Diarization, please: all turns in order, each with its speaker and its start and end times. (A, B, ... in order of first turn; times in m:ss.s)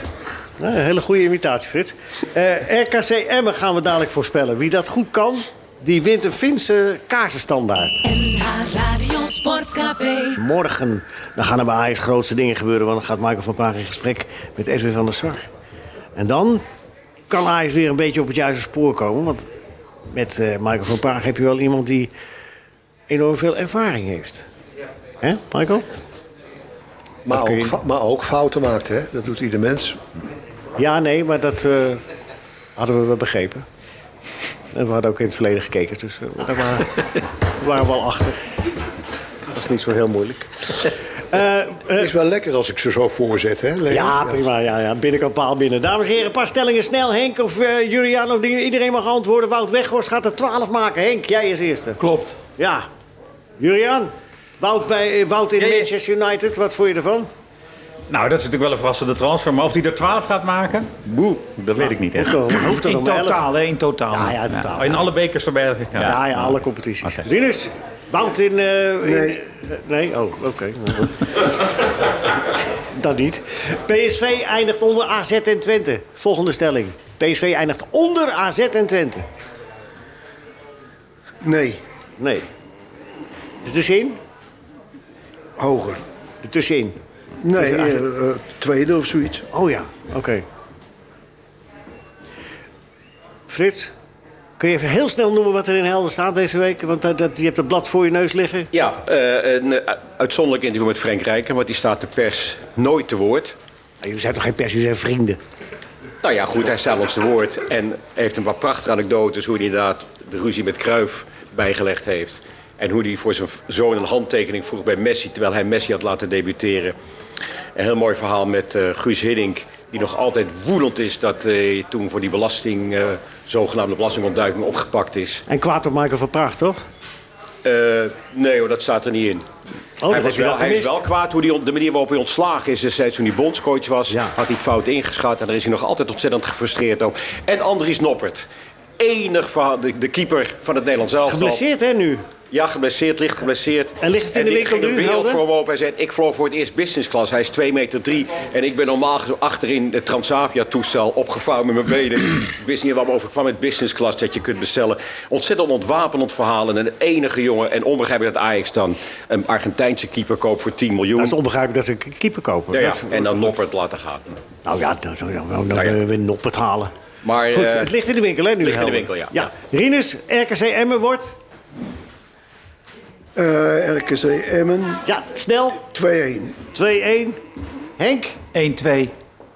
0:00.6-0:08.0 A
0:08.0-0:10.4 B
0:10.4-0:15.5 A
0:16.2-0:16.6 A
0:17.3-0:19.5 A
0:20.1-0:22.1 A
0:23.1-0:24.5 A
0:25.2-0:25.8 A
0:27.2-0:30.0 C
0:27.3-0:27.8 A
0:30.8-0:32.0 A
0:32.8-0:33.6 A
0:34.7-0:38.4 A
0:39.5-0:42.1 A
0:41.9-0:44.4 C
0:43.9-0:52.0 A
0:52.0-0:52.4 D
0:52.6-0:52.9 A
0:53.6-0:57.3 A
0:55.6-0:55.9 E
0:58.1-1:02.4 E
1:01.8-1:03.4 A
1:02.5-1:04.7 D
1:04.1-1:05.0 A
1:04.8-1:07.2 E
1:06.0-1:11.6 A
1:09.0-1:09.4 F
1:12.1-1:19.2 A
1:21.4-1:21.8 F
1:22.2-1:22.5 A
1:23.6-1:24.2 A
1:25.6-1:26.0 F
1:26.4-1:27.0 A
1:27.4-1:29.5 F
1:27.6-1:28.0 A
1:29.5-1:30.4 A
1:33.5-1:33.9 A
1:34.6-1:38.7 A
1:38.7-1:43.6 G
1:44.0-1:45.4 A
1:46.2-1:56.9 G
1:57.7-2:05.4 G
2:05.5-2:06.8 A
2:07.6-2:09.4 G
2:10.0-2:11.0 A
2:10.1-2:18.5 G
2:14.1-2:14.3 A
2:19.0-2:21.6 G
2:21.2-2:22.2 A
2:22.5-2:41.4 G
2:24.0-2:25.4 A
2:41.2-2:43.3 A
2:42.7-2:44.4 G
2:44.6-2:46.9 A
2:45.7-2:46.0 G
2:47.2-2:47.9 G
2:47.5-2:51.3 A
2:48.6-2:49.4 G
2:53.4-2:55.0 F
2:55.0-2:55.8 A
2:55.8-2:56.6 F
2:56.7-2:57.4 A
2:58.0-2:58.4 A
2:58.5-2:59.1 D